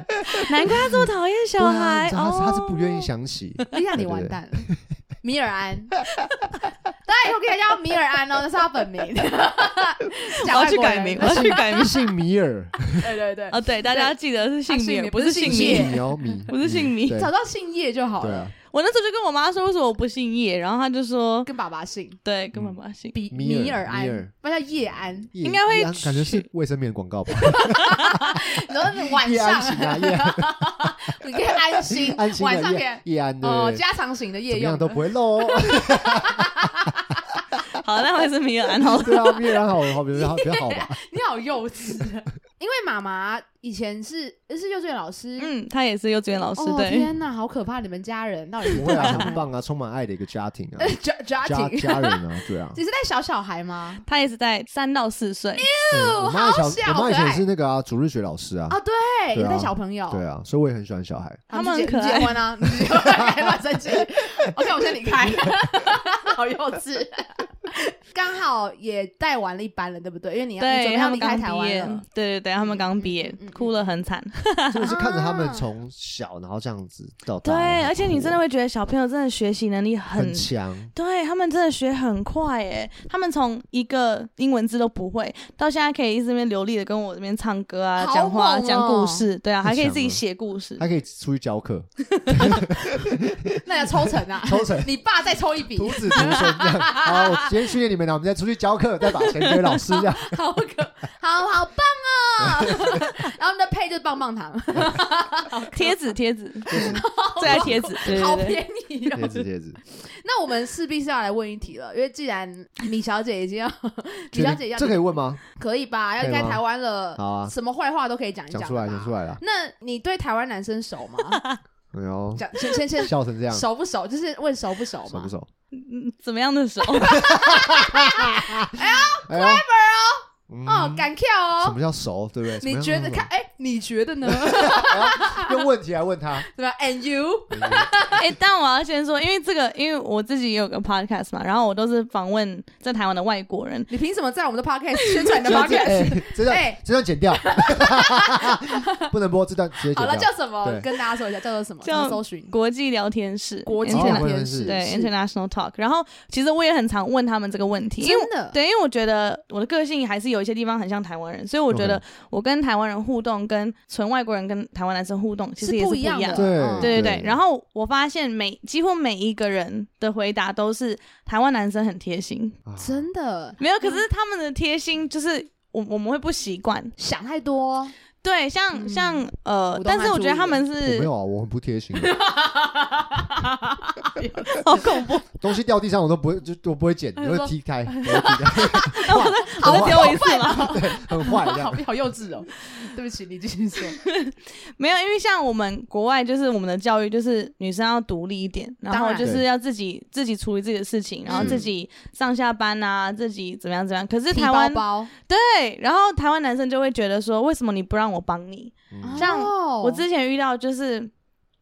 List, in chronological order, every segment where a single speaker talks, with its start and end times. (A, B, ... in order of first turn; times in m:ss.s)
0:00.1-0:04.8 A
0:00.3-0:03.1 B
0:03.7-0:04.7 C
0:05.2-0:06.0 C
0:07.0-0:11.7 C
0:10.4-0:12.0 B
0:11.2-0:13.1 A
0:13.0-0:14.1 C
0:13.5-0:17.2 B
0:14.7-0:16.5 C
0:15.4-0:17.3 A
0:17.1-0:18.5 C
0:18.2-0:18.5 A
0:18.7-0:21.5 B
0:21.4-0:22.2 C
0:22.2-0:23.1 B
0:22.5-0:22.8 A
0:23.1-0:25.3 C
0:23.3-0:24.3 A
0:25.3-0:28.2 A
0:25.4-0:26.4 B
0:27.4-0:37.0 C
0:29.0-0:30.8 A
0:31.9-0:33.8 A
0:34.5-0:36.6 A
0:37.7-0:39.3 B
0:39.0-0:41.0 A
0:40.1-0:45.5 C
0:45.4-0:47.1 B
0:46.6-0:49.4 C
0:48.8-0:52.8 A
0:49.0-0:49.2 B
0:50.8-0:54.0 C
0:54.0-0:55.6 B
0:55.6-0:57.4 C
0:55.9-0:58.8 A
0:58.7-1:00.2 C
0:59.3-1:01.4 A
1:01.5-1:12.0 C
1:01.5-1:02.4 B
1:02.8-1:03.5 A
1:10.6-1:14.9 B
1:12.6-1:13.7 C
1:14.7-1:18.4 A
1:14.9-1:15.6 C
1:17.4-1:30.8 B
1:20.1-1:20.9 A
1:28.0-1:29.2 C
1:29.6-1:30.2 A
1:30.8-1:34.9 A
1:32.2-1:32.6 B
1:33.6-1:37.5 C
1:35.8-1:40.4 A
1:39.1-1:46.0 C
1:42.5-1:43.0 A
1:45.7-1:48.6 B
1:46.7-2:01.4 C
1:46.7-1:48.2 A
1:49.1-1:49.8 A
1:54.3-1:55.4 A
1:56.2-1:56.6 A
1:57.2-1:57.5 A
1:58.5-1:59.4 A
2:01.3-2:01.6 B
2:01.9-2:03.6 A
2:02.4-2:05.3 C
2:05.1-2:05.5 A
2:05.7-2:07.3 B
2:07.0-2:11.8 C
2:07.1-2:09.6 A
2:10.5-2:11.1 A
2:11.6-2:13.3 A
2:12.6-2:15.6 C
2:14.3-2:16.5 A
2:16.4-2:18.2 C
2:17.5-2:18.1 A
2:18.1-2:23.9 B
2:23.9-2:26.8 C
2:25.4-2:30.9 A
2:27.3-2:29.1 C
2:29.9-2:32.5 C
2:31.8-2:52.6 B
2:33.6-2:35.1 C
2:33.9-2:34.8 A
2:38.0-2:38.6 C
2:41.7-2:42.0 A
2:45.6-2:47.0 C
2:46.3-2:47.4 A
2:52.6-2:53.0 A
2:52.8-2:54.0 C
2:53.6-2:56.9 B
2:57.0-2:57.9 C
2:58.2-3:01.1 B
2:58.7-3:00.6 C
3:00.8-3:02.2 A
3:02.0-3:05.0 C
3:04.6-3:05.2 B
3:05.4-3:11.8 A
3:07.2-3:14.0 C
3:09.0-3:10.7 B
3:14.0-3:31.1 B
3:18.9-3:19.3 C
3:21.3-3:21.6 C
3:21.3-3:21.6 A
3:24.3-3:25.1 C
3:28.9-3:29.3 A
3:29.0-3:30.0 C